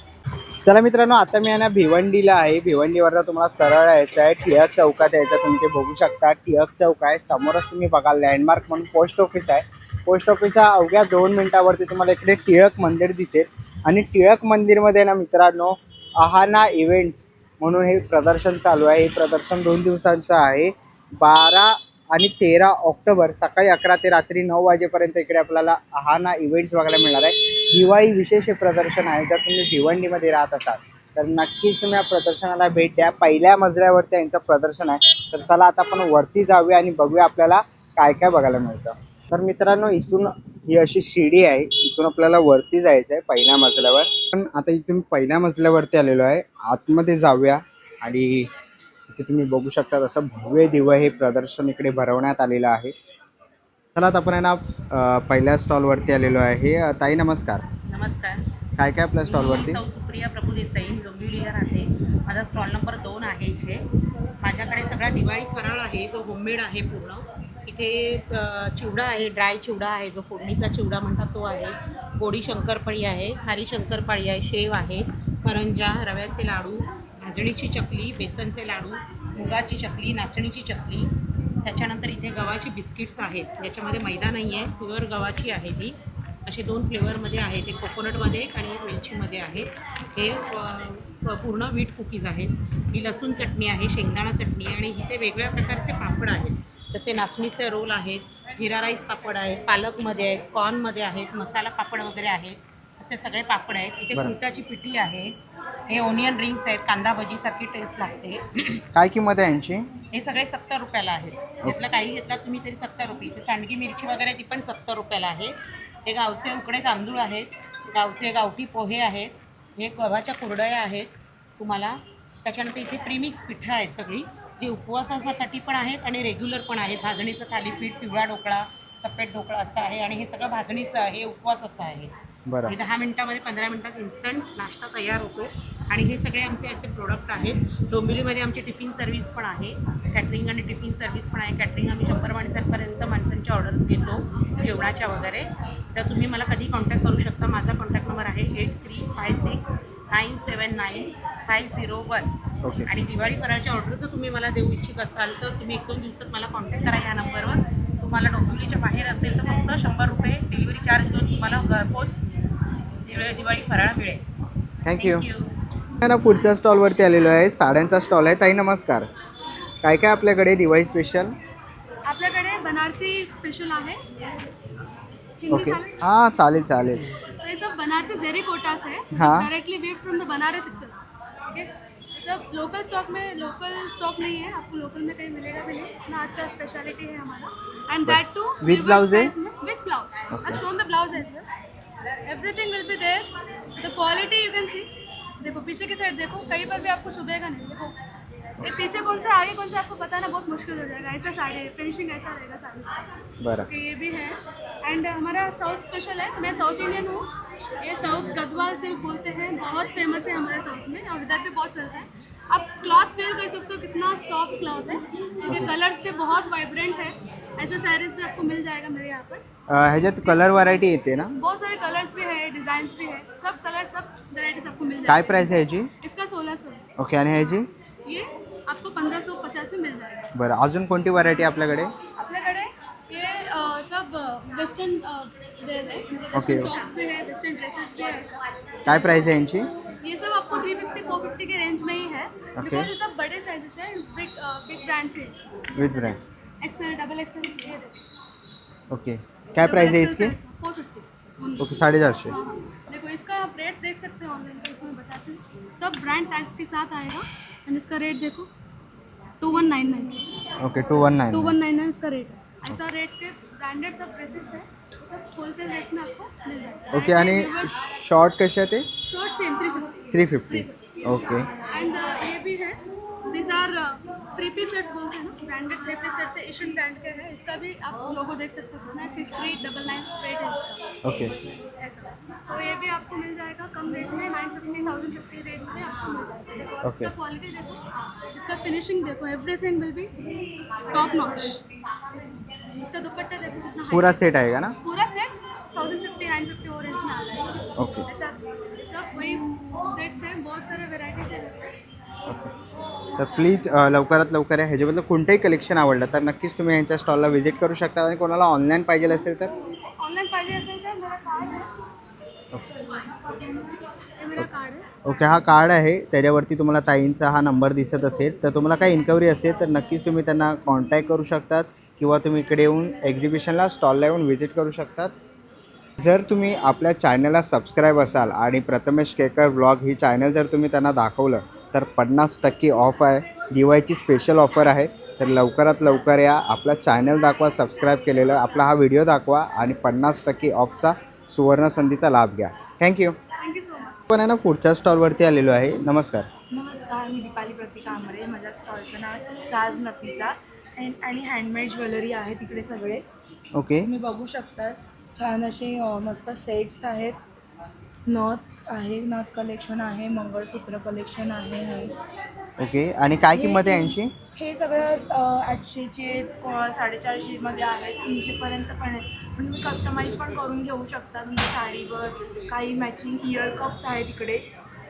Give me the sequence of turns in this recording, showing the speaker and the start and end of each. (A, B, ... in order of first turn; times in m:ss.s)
0:00.6-0:48.5 A
0:49.1-0:52.9 A
0:53.9-0:57.6 A
0:57.9-0:58.4 B
0:58.8-0:59.8 A
0:59.2-1:03.8 B
1:04.4-1:21.1 B
1:21.6-1:25.9 B
1:26.5-1:45.3 B
1:45.9-1:48.8 B
1:48.9-1:49.9 A
1:50.1-1:55.5 B
1:56.0-2:12.1 B
2:12.5-2:12.8 A
2:12.6-2:32.2 B
2:32.9-2:42.2 B
2:43.0-2:44.2 B
2:44.8-2:45.2 A
2:45.0-2:45.5 B
2:46.0-2:49.1 A
2:49.8-2:51.3 A
2:52.1-2:54.0 C
2:55.4-2:56.0 C
2:55.5-2:57.1 A
2:57.4-3:01.0 C
2:59.1-2:59.5 A
3:01.5-3:11.4 C
3:08.0-3:09.3 A
3:10.3-3:10.6 A
3:12.2-3:13.3 C
3:13.8-3:14.9 C
3:15.4-3:17.9 C
3:18.6-3:23.0 C
3:23.4-3:23.7 A
3:23.6-3:27.3 C
3:27.8-3:39.4 C
3:39.7-3:41.3 A
3:40.3-3:40.6 C
3:41.4-3:46.8 C
3:45.1-3:45.9 A
3:47.0-3:47.7 A
3:48.0-3:50.3 C
3:50.3-3:51.9 A
3:52.2-3:59.2 C
3:56.3-3:56.7 A
3:58.8-3:59.7 A
4:00.0-4:08.0 C
4:02.6-4:02.9 A
4:05.8-4:06.2 A
4:08.9-4:10.3 A
4:09.6-4:18.5 C
4:11.6-4:12.3 A
4:19.4-4:20.2 C
4:20.6-4:21.6 A
4:21.3-4:27.8 C
4:26.9-4:28.8 A
4:29.0-4:31.1 C
4:30.1-4:31.5 A
4:31.7-4:40.8 C
4:41.0-4:41.3 A
4:41.8-4:47.8 C
4:46.8-4:47.1 A
4:48.3-4:50.1 C
4:50.9-4:51.6 C
4:52.8-4:54.2 C
4:53.9-4:54.7 A
4:54.8-4:57.5 C
4:57.8-4:58.0 A
4:58.0-5:01.7 C
5:03.2-5:09.5 A
5:09.2-5:11.7 C
5:14.2-5:14.9 C
5:15.0-5:25.1 A
5:26.0-5:43.2 A
5:43.4-5:44.1 C
5:44.1-5:46.3 A
5:46.5-5:53.0 D
5:53.5-5:53.9 A
5:53.8-5:57.2 D
5:58.1-6:01.9 D
6:02.6-6:04.1 A
6:03.4-6:03.8 D
6:04.4-6:14.4 D